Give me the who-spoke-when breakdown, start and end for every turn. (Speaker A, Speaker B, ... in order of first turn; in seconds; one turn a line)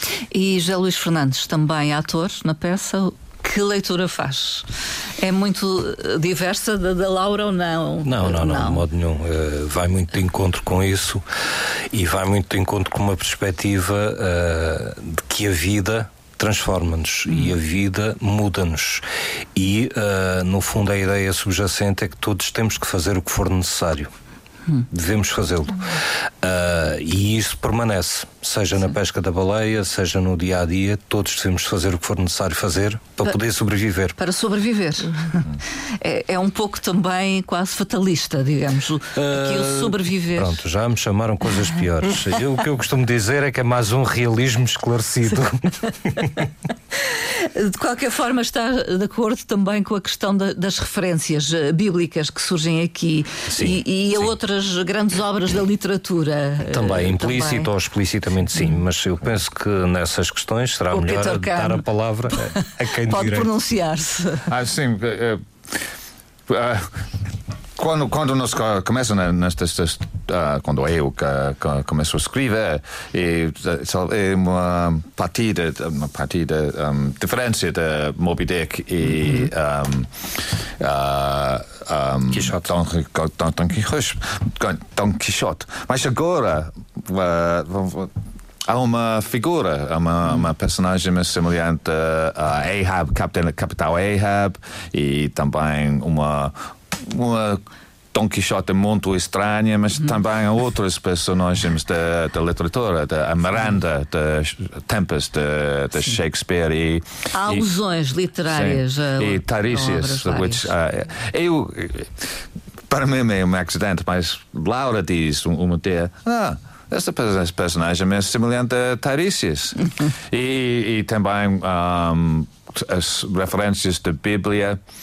Speaker A: 0.3-4.6
Speaker A: 5.2-8.8
Speaker B: 8.0-11.2
Speaker B: 11.9-19.0
Speaker B: 19.5-24.1
Speaker B: 24.9-34.1
Speaker A: 34.2-40.6
Speaker B: 39.1-46.4
Speaker A: 47.0-57.7
Speaker B: 53.5-54.2
Speaker B: 56.7-63.5
Speaker A: 60.9-64.5
Speaker C: 64.5-65.9
Speaker C: 66.5-67.1
Speaker C: 67.8-88.1
Speaker B: 82.3-82.7
Speaker C: 88.7-107.7
Speaker A: 107.3-110.7
Speaker C: 108.5-112.3
Speaker C: 112.9-124.8